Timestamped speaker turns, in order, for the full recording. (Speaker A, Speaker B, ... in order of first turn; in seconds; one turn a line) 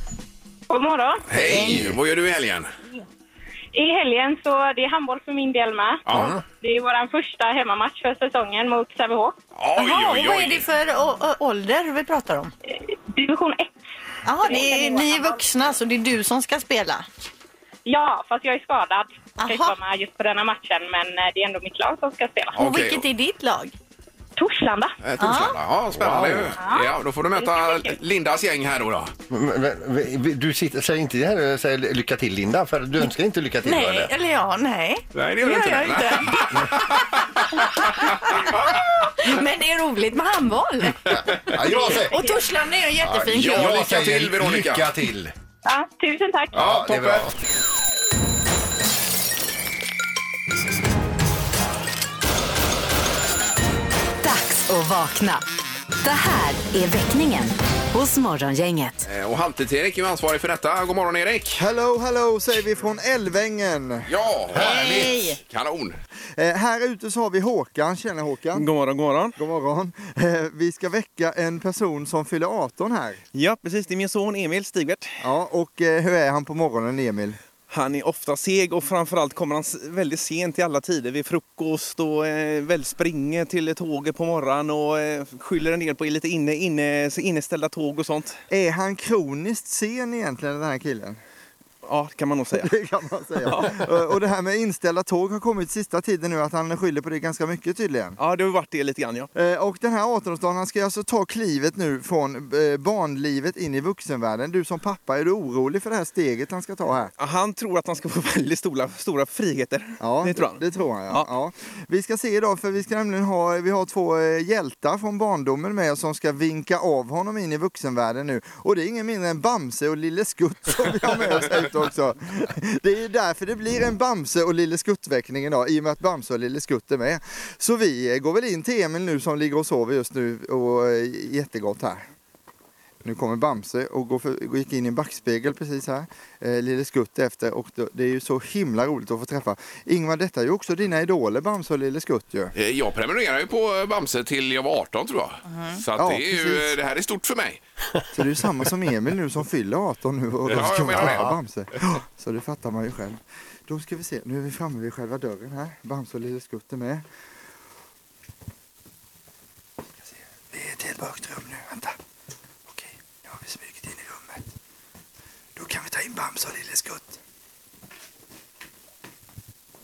Speaker A: 0.7-1.2
Speaker B: 1.3-2.7
Speaker C: 1.3-2.0
Speaker A: 3.7-6.0
Speaker B: 6.0-6.3
Speaker C: 6.1-6.4
Speaker A: 6.6-9.4
Speaker B: 9.6-10.7
Speaker D: 9.8-12.5
Speaker A: 12.7-13.7
Speaker D: 14.2-17.1
Speaker A: 14.4-15.1
Speaker A: 17.8-22.6
Speaker D: 19.4-19.7
Speaker B: 22.5-23.0
Speaker D: 22.6-23.7
Speaker A: 24.4-24.9
Speaker B: 25.0-29.1
Speaker D: 25.2-25.6
Speaker C: 25.9-26.6
Speaker A: 27.4-27.9
Speaker C: 29.3-34.1
Speaker D: 33.6-36.6
Speaker B: 35.1-38.8
Speaker D: 37.5-41.0
Speaker C: 41.1-42.3
Speaker D: 41.7-43.8
Speaker C: 43.0-45.3
Speaker B: 43.3-44.9
Speaker A: 45.6-46.5
Speaker B: 46.5-47.3
Speaker C: 46.5-47.3
Speaker E: 54.2-55.4
Speaker E: 56.0-59.0
Speaker B: 59.0-61.6
Speaker F: 61.5-64.1
Speaker B: 64.1-66.0
Speaker C: 64.5-65.2
Speaker D: 64.6-65.4
Speaker F: 66.4-68.7
Speaker G: 68.5-69.4
Speaker F: 69.4-73.2
Speaker G: 73.3-75.2
Speaker F: 75.2-77.4
Speaker G: 77.7-88.4
Speaker F: 88.5-91.2
Speaker G: 91.8-92.7
Speaker F: 92.5-98.2
Speaker G: 93.4-93.9
Speaker G: 98.2-99.3
Speaker F: 99.3-107.1
Speaker G: 107.2-111.3
Speaker F: 110.0-132.0
Speaker F: 133.0-142.5
Speaker B: 142.6-147.6
Speaker D: 145.5-145.8
Speaker F: 146.0-146.7
Speaker F: 148.1-157.0
Speaker B: 150.5-151.3
Speaker F: 160.5-161.9
Speaker F: 162.7-164.5
Speaker F: 165.6-167.2